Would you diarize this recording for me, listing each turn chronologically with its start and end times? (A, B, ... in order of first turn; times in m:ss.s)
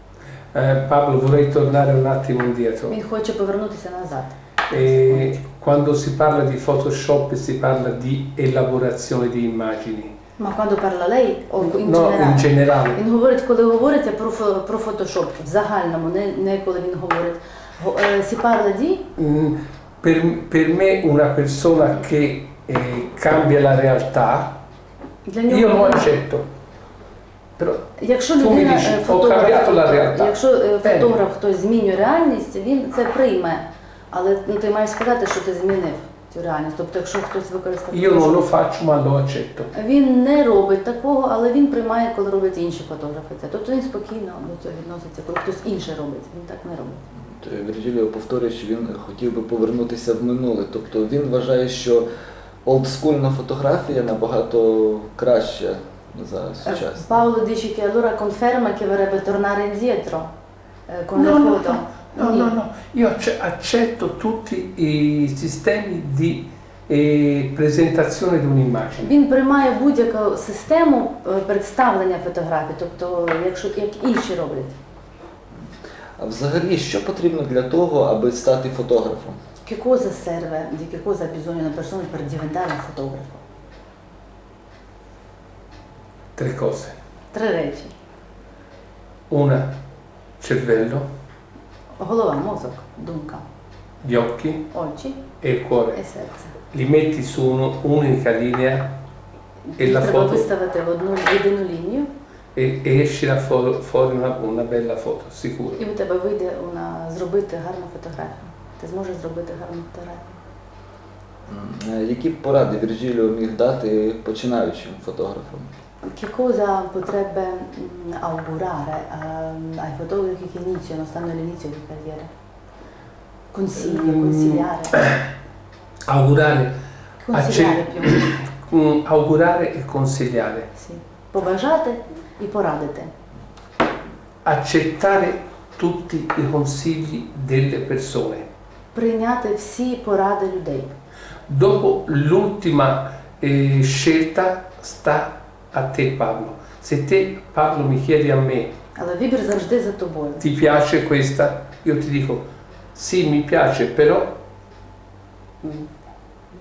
0:00.5-0:03.0 A
0:02.9-0:05.4 B
0:04.7-0:10.1 A
0:10.4-0:19.1 B
0:11.6-0:13.0 A
0:19.2-0:24.6 A
0:25.3-0:26.1 B
0:25.5-0:26.4 A
0:28.0-0:38.4 B
0:28.4-0:31.2 A
0:37.9-0:39.7 A
0:39.7-0:47.0 B
0:47.3-0:52.1 C
0:52.6-0:57.1 C
0:56.6-1:00.3 B
1:00.9-1:02.5 B
1:01.2-1:09.1 A
1:09.0-1:14.8 B
1:16.2-1:19.4 C
1:19.6-1:23.4 B
1:26.4-1:27.0 A
1:27.3-1:27.9 B
1:29.3-1:29.8 A
1:30.4-1:31.1 A
1:32.0-1:33.4 B
1:34.0-1:34.7 A
1:34.7-1:35.2 B
1:35.4-1:36.0 A
1:35.9-1:36.5 B
1:36.7-1:39.0 A
1:39.7-1:42.1 B
1:39.8-1:40.5 A
1:42.6-1:45.8 A
1:45.8-1:50.4 B
1:51.5-1:55.7 C
1:56.0-2:02.3 B
2:03.5-2:05.0 B
2:03.8-2:05.3 A
2:06.1-2:06.8 A
2:07.2-2:08.4 B
2:07.3-2:10.7 A
2:10.8-2:13.1 B
2:14.4-2:18.5 A
2:18.9-2:21.0 B
2:21.5-2:28.7 A
2:29.0-2:30.4 B
2:30.4-2:34.3 A